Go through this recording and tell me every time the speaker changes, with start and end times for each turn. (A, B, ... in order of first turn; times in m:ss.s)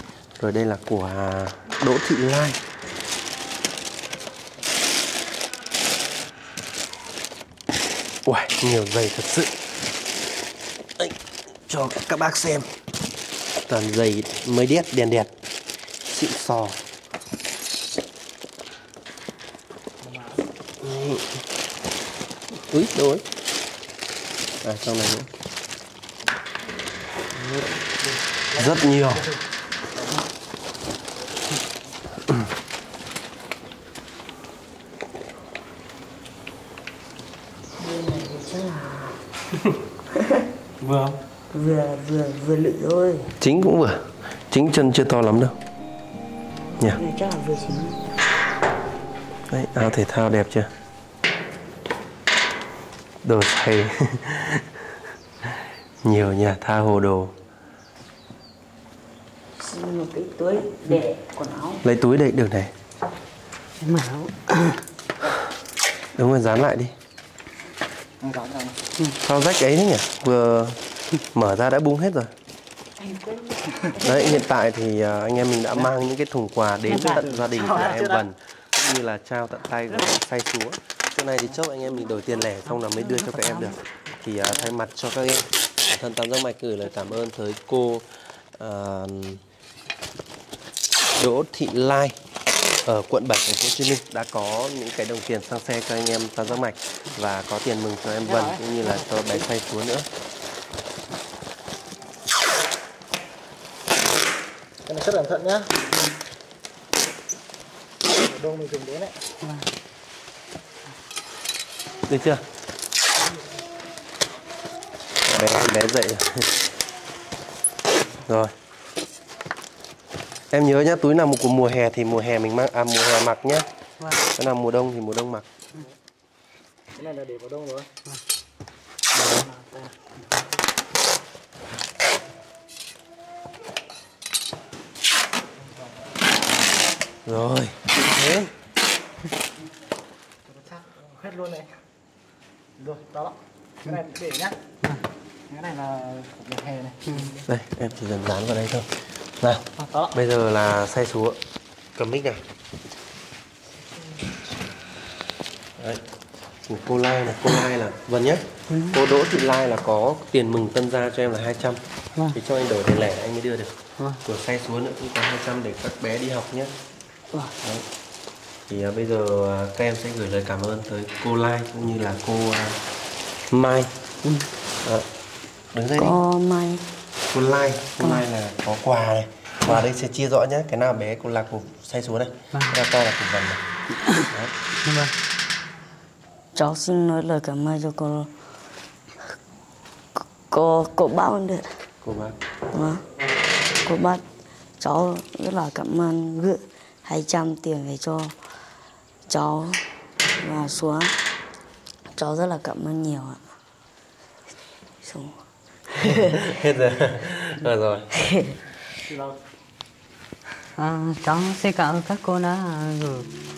0:00.4-0:02.6 A
0:08.2-0:09.5 A
0:11.0-0:12.7 A
0:13.7-0:15.3 A
0:16.0-0:16.8 A
0:20.0-0:20.4 B
0:20.8-0:21.3 A
0:22.6-0:23.2 A
0:24.6-0:25.3 A
0:27.4-0:29.4 B
0:28.5-0:29.2 A
0:37.8-0:39.2 C
0:40.1-0:40.4 C
0:40.8-0:41.2 D
0:41.5-0:43.3 C
0:43.4-0:45.6 A
0:46.9-0:48.0 C
0:49.5-0:50.7 A
0:53.2-0:57.3 A
0:59.6-1:01.8 C
1:01.8-1:02.7 A
1:03.8-1:04.8 D
1:06.2-1:06.9 A
1:08.2-1:08.8 B
1:09.2-1:10.8 A
1:11.3-1:12.3 A
1:13.0-1:14.4 C
1:14.0-1:29.4 A
1:17.0-1:18.2 B
1:22.6-1:23.8 D
1:31.2-1:32.2 A
1:32.8-1:40.1 A
1:38.2-1:38.7 B
1:44.8-1:45.7 B
1:48.1-1:49.1 B
1:49.4-1:49.7 D
1:52.1-1:52.4 A
1:55.2-1:56.5 A
1:58.2-1:58.5 A
2:00.5-2:03.6 A
2:04.0-2:04.2 D
2:04.3-2:05.5 A
2:06.9-2:07.9 B
2:09.1-2:10.0 B
2:15.6-2:15.9 B
2:17.2-2:17.8 A
2:20.5-2:21.7 B
2:22.8-2:24.6 B
2:25.5-2:27.4 B
2:27.5-2:31.4 A
2:31.9-2:32.4 A
2:36.6-2:41.8 A
2:38.7-2:39.0 D
2:42.3-2:46.7 A
2:48.7-2:52.8 A
2:53.5-2:53.9 A
2:55.7-2:56.2 A
2:56.0-2:56.8 C
2:57.3-3:03.6 A
3:04.8-3:05.1 D
3:06.5-3:08.3 C
3:10.2-3:11.8 C
3:12.0-3:12.4 A
3:12.7-3:13.0 C
3:13.7-3:14.2 C
3:14.8-3:18.4 C
3:19.3-3:21.2 C
3:22.2-3:23.5 C
3:25.0-3:26.6 C
3:26.2-3:28.1 A
3:28.1-3:28.6 C
3:29.0-3:29.4 B
3:30.8-3:33.3 D